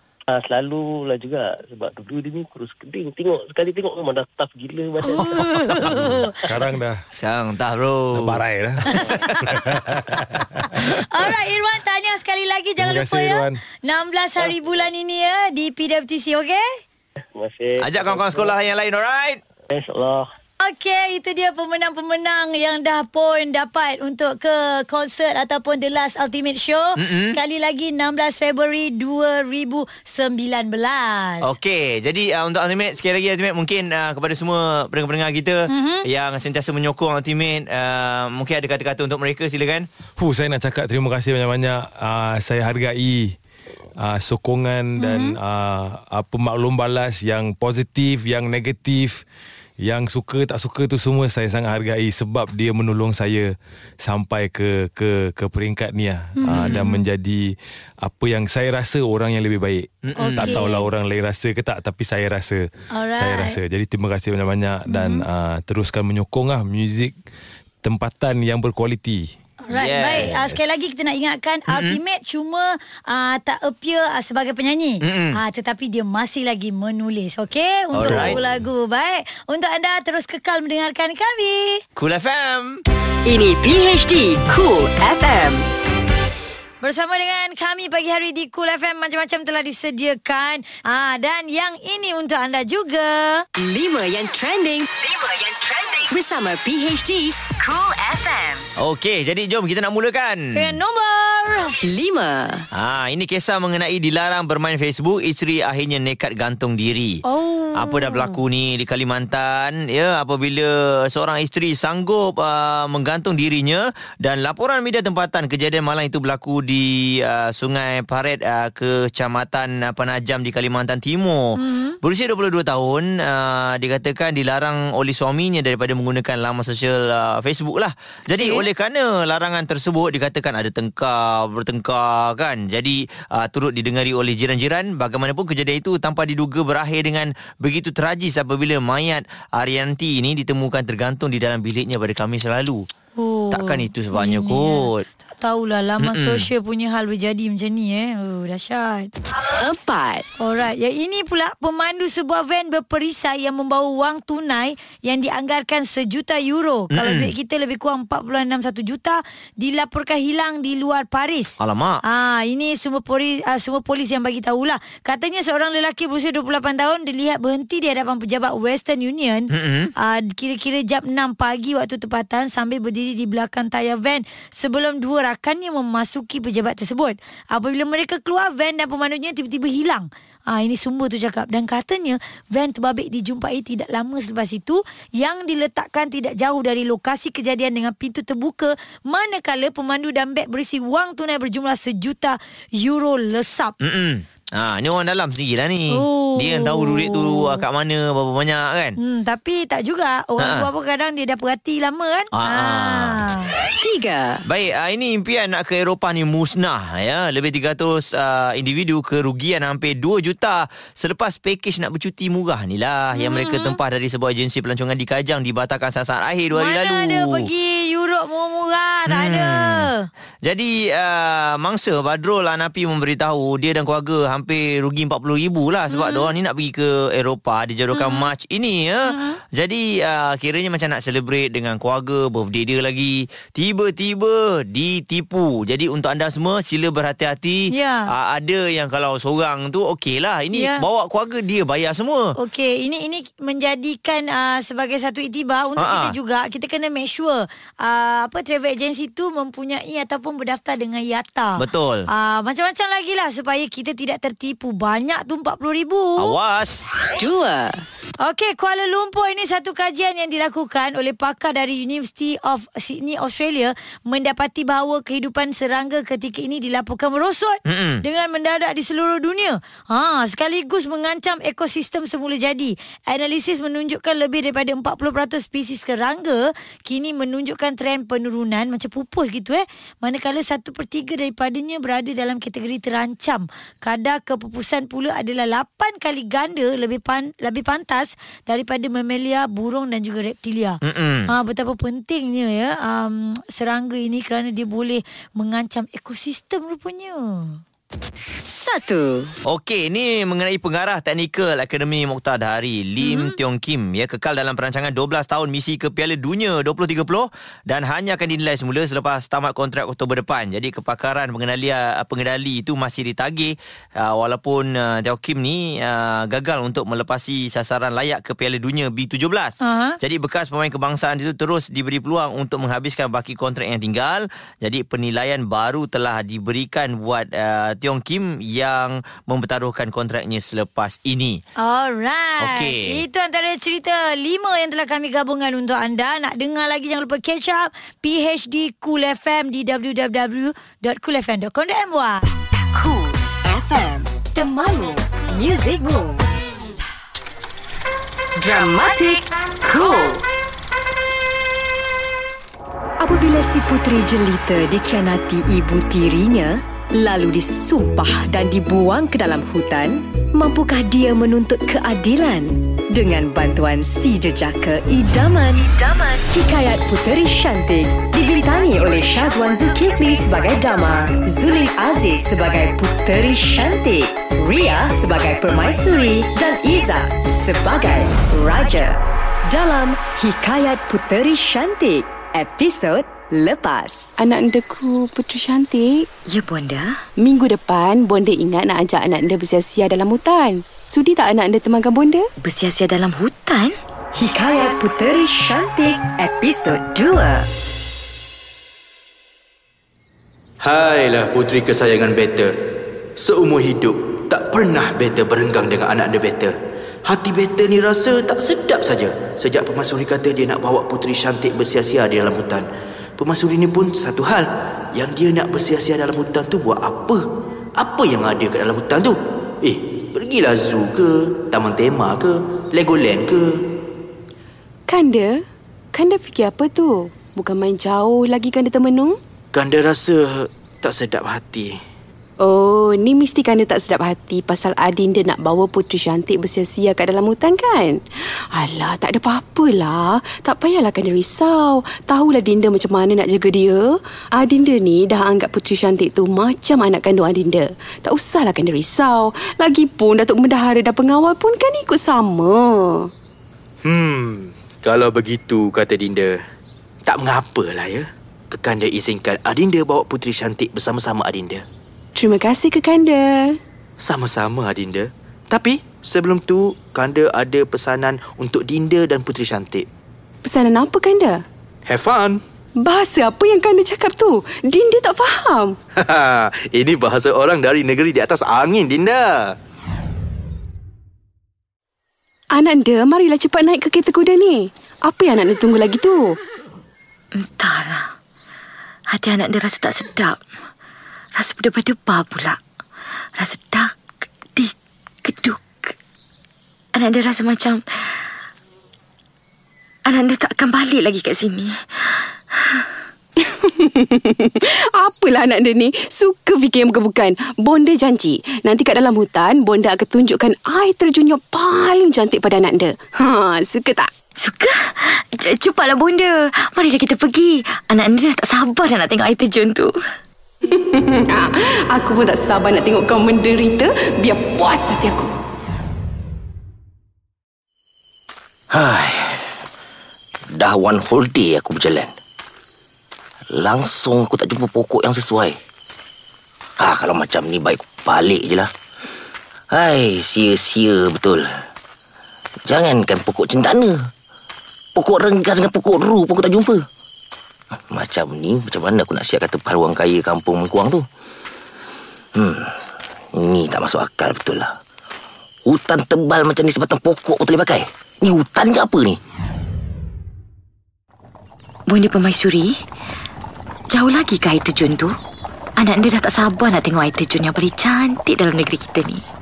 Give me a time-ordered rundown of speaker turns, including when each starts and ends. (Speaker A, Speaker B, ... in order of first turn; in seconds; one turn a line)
Speaker A: 0.3-6.0
Speaker B: 5.0-6.4
Speaker C: 5.9-7.0
Speaker D: 7.1-8.4
Speaker C: 8.1-10.9
Speaker B: 8.9-9.6
Speaker B: 10.7-16.6
Speaker C: 12.8-13.6
Speaker A: 17.3-18.5
Speaker D: 17.8-19.4
Speaker A: 19.7-20.3
Speaker B: 20.6-31.5
Speaker D: 27.0-27.4
Speaker D: 31.4-39.9
Speaker B: 35.7-36.0
Speaker C: 40.2-43.3
Speaker C: 44.0-49.2
Speaker B: 45.0-45.4
Speaker C: 49.8-67.2
Speaker B: 56.4-57.0
Speaker D: 56.5-56.8
Speaker D: 60.0-60.6
Speaker B: 60.2-60.9
Speaker B: 62.9-63.6
Speaker B: 64.9-65.2
Speaker C: 67.8-69.3
Speaker B: 69.6-81.8
Speaker D: 69.7-70.4
Speaker C: 70.1-70.7
Speaker D: 71.7-72.0
Speaker D: 75.0-75.4
Speaker D: 77.9-78.4
Speaker C: 78.0-78.4
Speaker D: 82.0-82.8
Speaker E: 83.2-85.7
Speaker B: 86.8-93.5
Speaker E: 93.5-98.7
Speaker D: 98.8-100.8
Speaker B: 100.5-101.8
Speaker E: 101.8-102.7
Speaker D: 102.7-107.2
Speaker B: 107.2-108.4
Speaker D: 107.8-142.9
Speaker B: 121.5-122.0
Speaker B: 128.3-128.7
Speaker B: 143.2-149.1
Speaker D: 143.5-145.0
Speaker D: 146.0-146.5
Speaker E: 149.5-150.2
Speaker B: 150.4-193.7
Speaker D: 156.9-157.3
Speaker D: 161.6-162.0
Speaker D: 169.5-169.9
Speaker D: 193.8-199.0
Speaker B: 195.9-197.6
Speaker B: 199.0-203.5
Speaker D: 200.4-200.7
Speaker D: 202.3-203.2
Speaker E: 203.8-204.4
Speaker D: 204.4-217.5
Speaker B: 213.1-213.8
Speaker B: 216.5-220.1
Speaker D: 219.1-219.9
Speaker D: 220.4-242.3
Speaker B: 225.9-226.3
Speaker B: 227.9-228.3
Speaker B: 229.1-229.4
Speaker B: 237.7-238.1
Speaker B: 240.5-240.8
Speaker B: 242.3-256.3
Speaker D: 245.8-246.1
Speaker D: 251.6-252.1
Speaker D: 256.2-256.9
Speaker E: 257.1-257.8
Speaker B: 258.2-297.6
Speaker D: 267.6-268.0
Speaker D: 290.8-291.3
Speaker E: 298.3-299.4
Speaker D: 299.4-331.4
Speaker B: 319.6-320.0
Speaker B: 331.6-342.2
Speaker D: 332.4-333.0
Speaker E: 342.7-346.5
Speaker E: 348.4-350.2
Speaker E: 353.0-384.1
Speaker F: 384.2-386.1
Speaker G: 386.3-387.0
Speaker F: 387.2-392.3
Speaker G: 392.4-393.8
Speaker E: 394.1-397.5
Speaker H: 400.6-402.6
Speaker H: 403.2-406.5
Speaker H: 407.1-412.7
Speaker H: 413.2-417.2
Speaker H: 417.8-423.5
Speaker F: 424.9-425.4
Speaker F: 425.9-429.2
Speaker H: 429.5-431.8
Speaker F: 432.4-453.1
Speaker H: 453.8-456.4
Speaker H: 457.1-461.6
Speaker F: 462.1-463.6
Speaker H: 464.0-469.9
Speaker F: 470.4-471.4
Speaker H: 471.9-472.4
Speaker F: 472.8-475.8
Speaker H: 475.9-479.5
Speaker F: 482.5-486.4
Speaker G: 487.3-488.1
Speaker G: 489.1-490.4
Speaker G: 491.4-492.6
Speaker G: 493.4-495.9
Speaker G: 496.9-498.3
Speaker G: 500.1-502.9
Speaker F: 503.4-514.1
Speaker G: 514.4-520.0
Speaker F: 520.6-525.3
Speaker I: 528.7-529.5
Speaker I: 530.5-532.1
Speaker I: 533.5-535.6
Speaker I: 536.8-538.7
Speaker I: 539.7-541.5
Speaker I: 542.7-544.1
Speaker I: 545.0-546.8
Speaker I: 547.9-551.0
Speaker I: 552.4-554.7
Speaker I: 555.6-559.2
Speaker G: 561.9-562.8
Speaker G: 563.9-565.1
Speaker G: 565.8-569.2